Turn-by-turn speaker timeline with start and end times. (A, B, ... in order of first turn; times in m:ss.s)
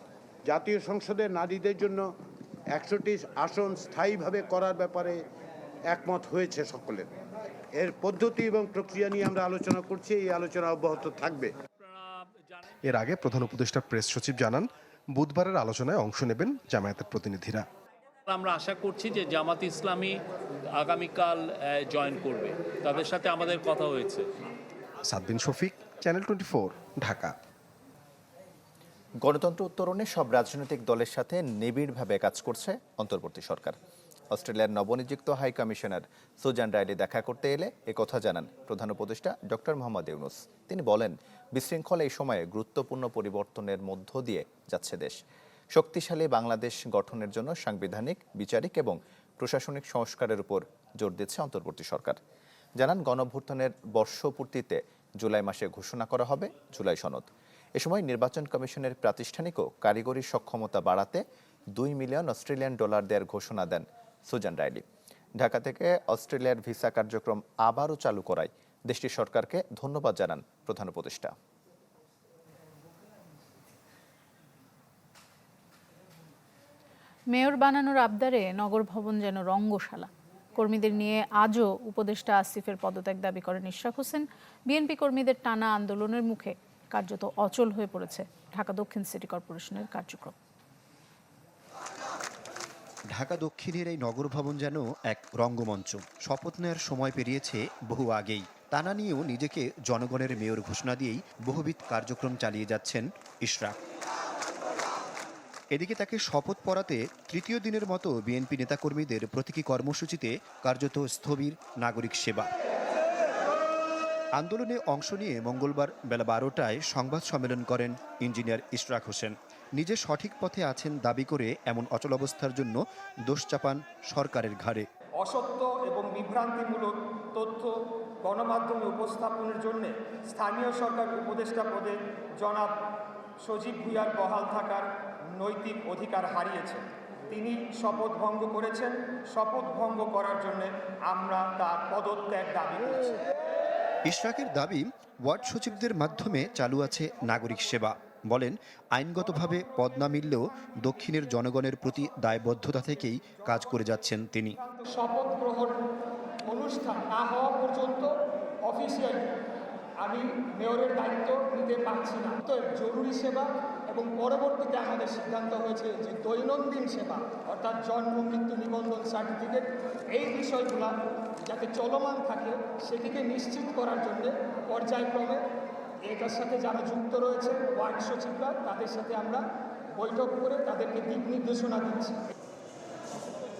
0:00.5-0:02.0 A
0:02.8-0:05.2 A
0:05.9-0:07.1 A
0:07.8-0:11.5 A
0:11.8-0:12.7 B
0:13.5-0:14.6 C
0:15.2-0:17.6 C
0:17.0-0:17.4 D
0:18.3-0:20.2 B
0:20.7-0:24.3 B
0:25.2-0:26.5 C
0:25.8-0:26.3 D
0:26.8-0:27.3 D
0:29.2-0:33.8 E
0:34.3-0:45.2 E
0:45.7-0:52.2 E
0:52.8-1:01.2 E
1:01.8-1:04.8 E
1:05.4-1:11.4 E
1:17.3-1:30.4 F
1:33.1-1:43.8 D
1:45.7-1:52.5 D
1:54.4-2:04.9 D
2:05.2-2:12.8 G
2:13.4-2:23.2 G
2:24.1-2:34.6 D
2:34.8-2:35.8 G
2:36.4-2:39.3 G
2:40.0-2:50.9 G
2:51.4-2:55.4 G
2:56.1-2:59.4 G
3:00.0-3:02.2 G